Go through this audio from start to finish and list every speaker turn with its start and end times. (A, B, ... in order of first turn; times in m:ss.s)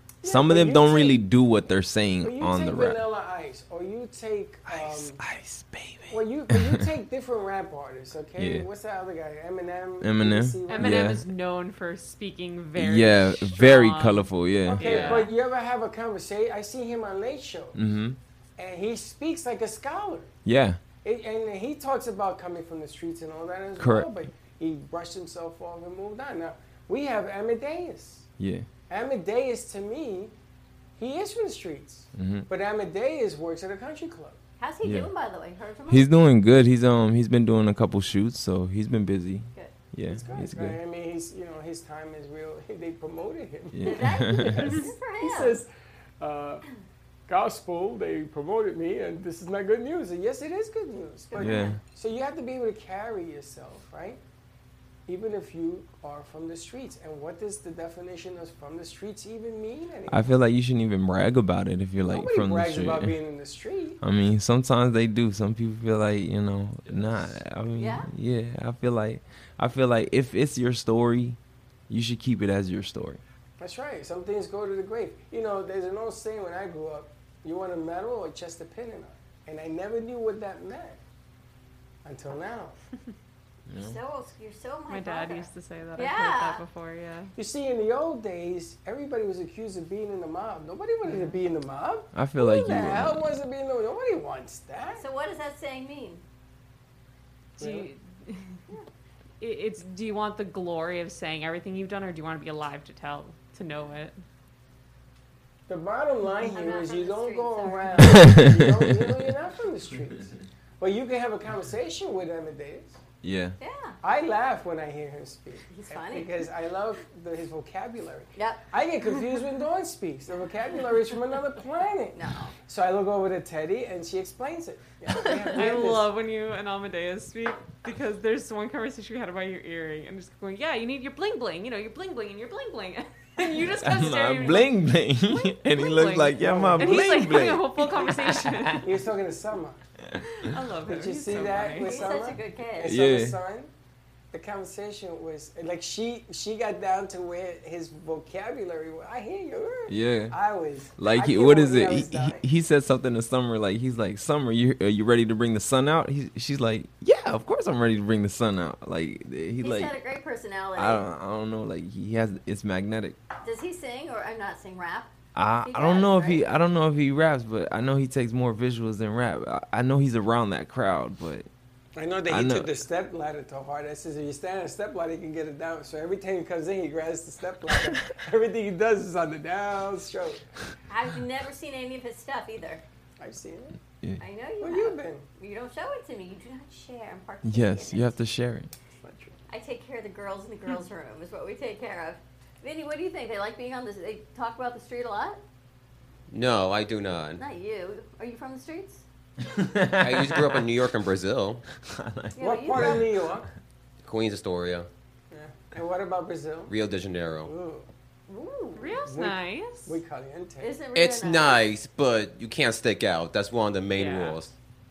0:00.2-0:01.2 A
0:00.2-0:03.0 B
0:02.2-0:05.2 A
0:04.7-0:06.8 B
0:06.1-0:11.1 A
0:08.4-0:08.7 B
0:10.0-0:11.2 B
0:10.7-0:15.3 C
0:12.8-0:15.3 B
0:14.7-0:17.8 A
0:17.8-0:18.2 B
0:18.6-0:20.3 A
0:20.4-0:20.8 B
0:21.0-0:28.3 A
0:23.8-0:24.1 B
0:28.4-0:28.7 B
0:28.9-0:30.3 A
0:31.0-0:34.4 A
0:32.2-0:32.5 B
0:34.6-0:36.1 D
0:34.8-0:35.1 B
0:35.9-0:40.8 B
0:40.1-0:45.7 A
0:43.7-0:44.9 B
0:43.8-0:45.6 D
0:46.2-0:46.6 A
0:47.3-0:54.2 A
0:51.3-0:51.8 D
0:51.4-0:51.8 B
0:55.1-1:00.3 A
1:00.1-1:03.2 B
1:02.1-1:04.0 A
1:04.0-1:11.4 B
1:07.8-1:08.1 D
1:11.9-1:13.2 B
1:13.6-1:21.0 A
1:22.0-1:22.8 A
1:23.7-1:24.0 B
1:23.8-1:26.6 D
1:24.9-1:27.3 C
1:27.4-1:35.0 A
1:31.1-1:31.3 C
1:32.1-1:33.3 B
1:34.9-1:36.2 D
1:37.6-1:37.9 A
1:37.6-1:38.6 C
1:39.4-1:44.2 C
1:45.7-1:53.0 A
1:46.4-1:48.3 D
1:48.2-1:48.9 B
1:53.2-1:53.6 B
1:53.6-1:54.0 D
1:54.0-2:06.1 A
1:55.7-1:56.4 D
1:58.4-1:58.7 D
2:02.2-2:02.5 D
2:05.5-2:18.9 C
2:13.6-2:18.8 B
2:16.4-2:17.6 A
2:18.8-2:19.8 A
2:20.4-2:22.0 C
2:20.8-2:23.7 A
2:21.7-2:22.9 D
2:22.8-2:23.4 B
2:24.3-2:32.4 A
2:29.9-2:30.4 B
2:31.0-2:40.0 B
2:39.6-2:41.1 D
2:40.8-2:43.2 B
2:43.4-2:45.1 D
2:45.4-2:51.5 B
2:45.6-2:46.4 D
2:52.0-3:00.4 A
2:52.3-2:52.7 B
3:00.9-3:02.8 D
3:03.2-3:03.8 A
3:04.2-3:08.2 D
3:04.6-3:05.3 A
3:07.4-3:08.7 B
3:08.9-3:09.4 A
3:09.5-3:15.4 D
3:16.3-3:17.4 E
3:17.4-3:19.0 D
3:19.5-3:20.7 B
3:20.0-3:21.6 E
3:21.7-3:23.0 B
3:22.4-3:23.1 D
3:22.4-3:23.5 A
3:24.0-3:24.9 E
3:25.3-3:26.8 A
3:26.7-3:27.5 E
3:27.4-3:27.9 A
3:28.3-3:28.9 D
3:28.8-3:30.0 C
3:29.0-3:30.8 A
3:30.6-3:31.6 D
3:31.0-3:34.5 E
3:33.9-3:34.4 C